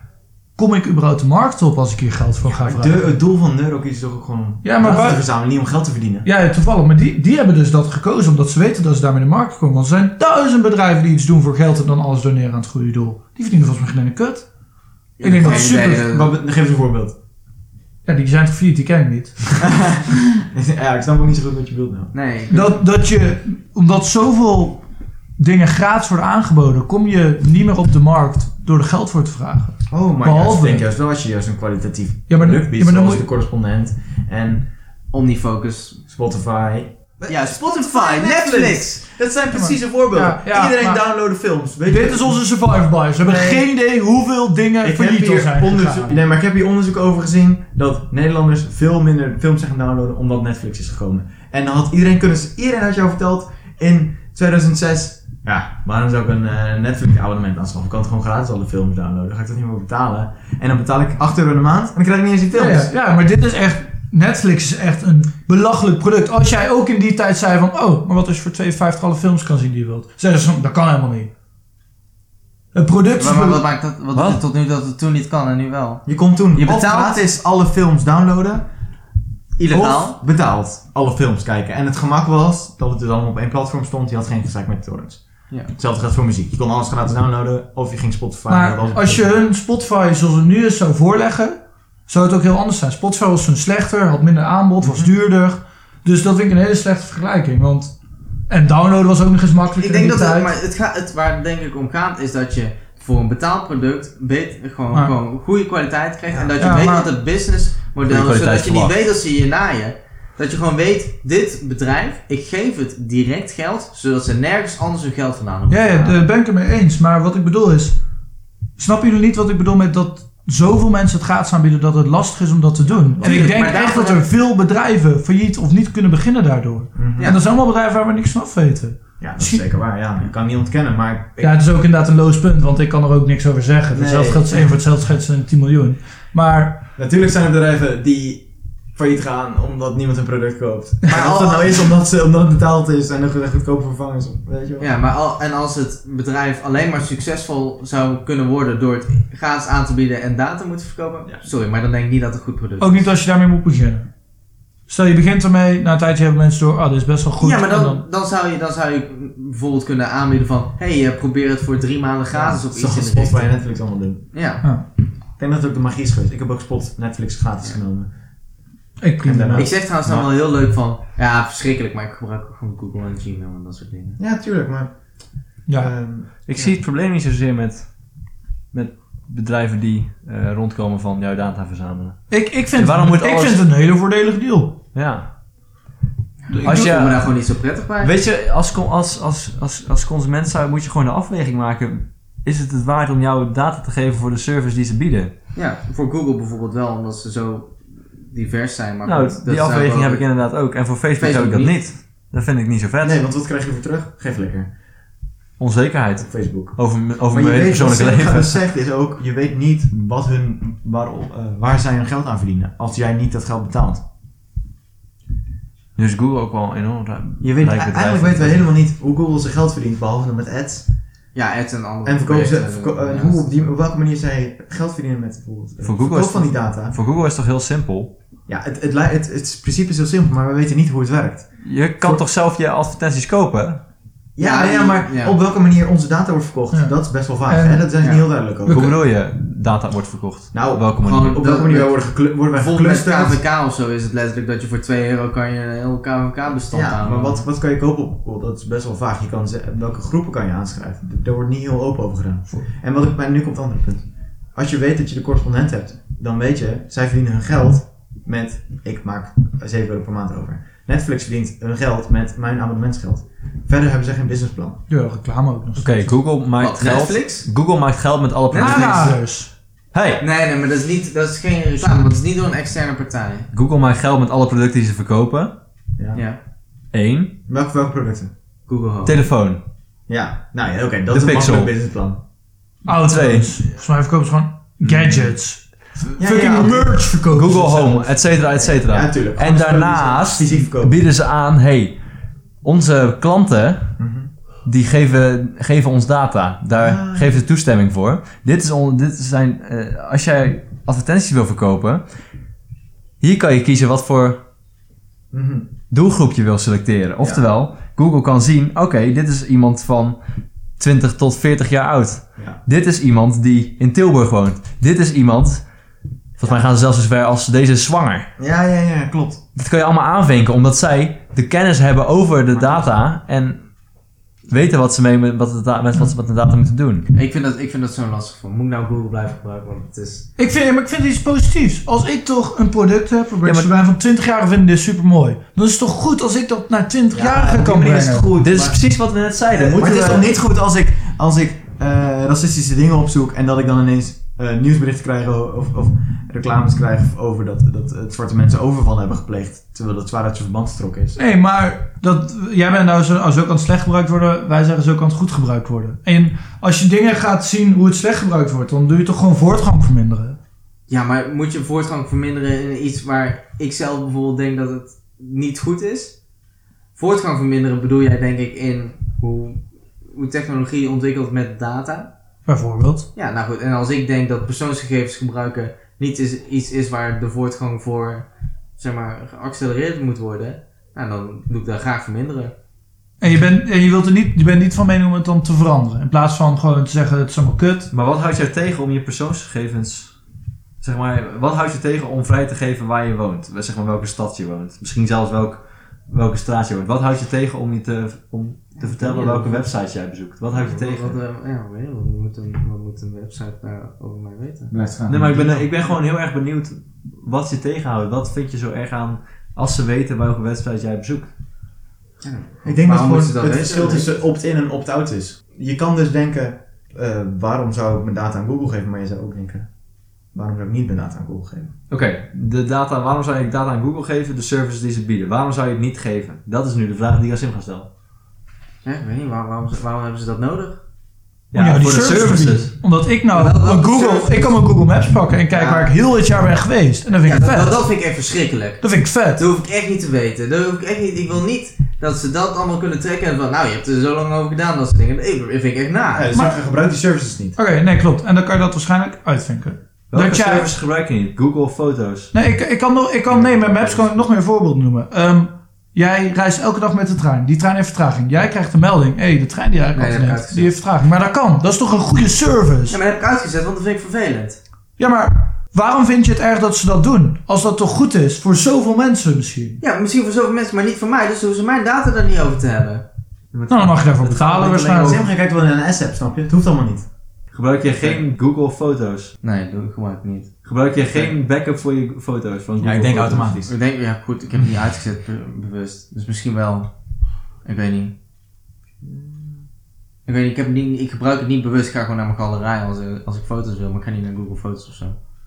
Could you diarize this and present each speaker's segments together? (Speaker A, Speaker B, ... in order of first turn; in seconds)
Speaker A: 0.6-3.2, 4.6-5.2, 6.2-14.5, 15.2-16.1, 18.0-19.6, 22.5-24.8, 25.4-30.9, 32.3-33.2, 39.5-41.0, 41.9-46.2, 62.5-71.3, 72.7-73.6, 88.5-97.9, 98.5-100.5, 106.6-107.1, 115.7-118.0, 118.8-129.7, 131.4-136.8, 152.8-154.1, 154.9-158.0, 169.0-169.7, 175.7-175.9, 182.3-184.8, 186.5-186.9, 236.7-237.9, 238.6-239.0, 264.9-266.2, 268.5-269.5, 282.8-287.6, 330.4-338.3, 351.1-360.4, 372.5-373.1, 383.2-387.9, 431.5-437.8, 438.8-439.4, 447.5-450.7, 452.3-463.0, 465.0-469.8, 473.7-475.2
Speaker B: 2.5-6.3, 15.4-17.1, 19.6-22.1, 29.9-34.7, 36.1-42.4, 43.2-43.6, 44.8-62.9, 76.0-78.7, 79.7-89.4, 94.8-95.1, 106.3-106.9, 122.8-123.6, 126.9-127.4, 129.2-131.5, 133.9-134.7, 136.9-144.9, 162.3-164.3, 165.4-168.1, 169.2-170.3, 174.2-174.9, 175.7-176.8, 203.0-204.7, 206.2-214.0, 217.4-220.9, 222.0-227.0, 228.5-232.2, 234.3-238.9, 240.5-243.4, 246.7-264.8, 277.5-278.3, 280.1-282.2, 284.8-285.3, 286.2-291.0, 294.0-294.3, 296.7-297.4, 305.3-305.7, 307.2-307.4, 316.4-316.6, 318.4-319.4, 322.5-322.9, 337.1-338.7, 339.5-351.2, 404.7-405.7, 412.6-419.7, 420.3-421.7, 446.1-447.6, 475.0-477.1, 482.8-483.7
Speaker C: 15.2-16.3, 22.1-22.8, 35.1-36.0, 37.3-39.0, 73.2-77.2, 79.6-80.2, 99.7-116.2, 123.2-124.2, 141.1-141.8, 144.8-153.1, 157.4-163.5, 164.3-164.6, 169.5-174.2, 186.5-188.1, 195.5-200.5, 201.2-201.9, 221.3-223.4, 234.4-235.4, 241.0-247.4, 266.6-267.5, 268.5-269.2, 270.2-273.5, 278.7-279.2, 327.1-330.3, 360.9-366.1, 366.9-369.6, 370.1-372.1, 373.1-378.2, 378.8-382.5, 398.8-399.7, 400.5-404.7, 412.2-414.1, 428.8-430.8, 433.3-434.6, 435.5-435.9, 437.2-446.3, 453.3-454.2, 459.9-460.7, 462.9-464.6, 469.8-473.0, 474.3-475.2, 479.4-481.3, 483.7-486.9, 487.6-488.1, 490.2-495.1
Speaker D: 108.0-108.9, 176.4-177.9, 178.7-183.6, 184.9-185.3, 186.6-187.3, 188.0-195.3, 199.0-203.2, 205.6-208.6, 215.9-218.6, 225.8-228.1, 231.6-233.8, 238.7-241.4, 265.8-269.2, 269.9-270.2, 273.5-275.5, 276.9-277.3, 279.0-279.6, 281.1-281.7, 282.9-283.6, 287.3-292.0, 292.6-293.9, 294.6-302.0, 303.2-304.4, 305.9-310.2, 310.8-315.6, 316.4-318.3, 319.5-323.7, 324.5-327.1, 333.4-333.7, 338.4-340.3, 387.9-390.1, 390.8-401.2, 405.1-411.3, 421.9-427.9, 431.5-432.7, 450.1-452.3, 473.5-474.8, 477.5-479.3, 480.6-483.6, 489.0-489.6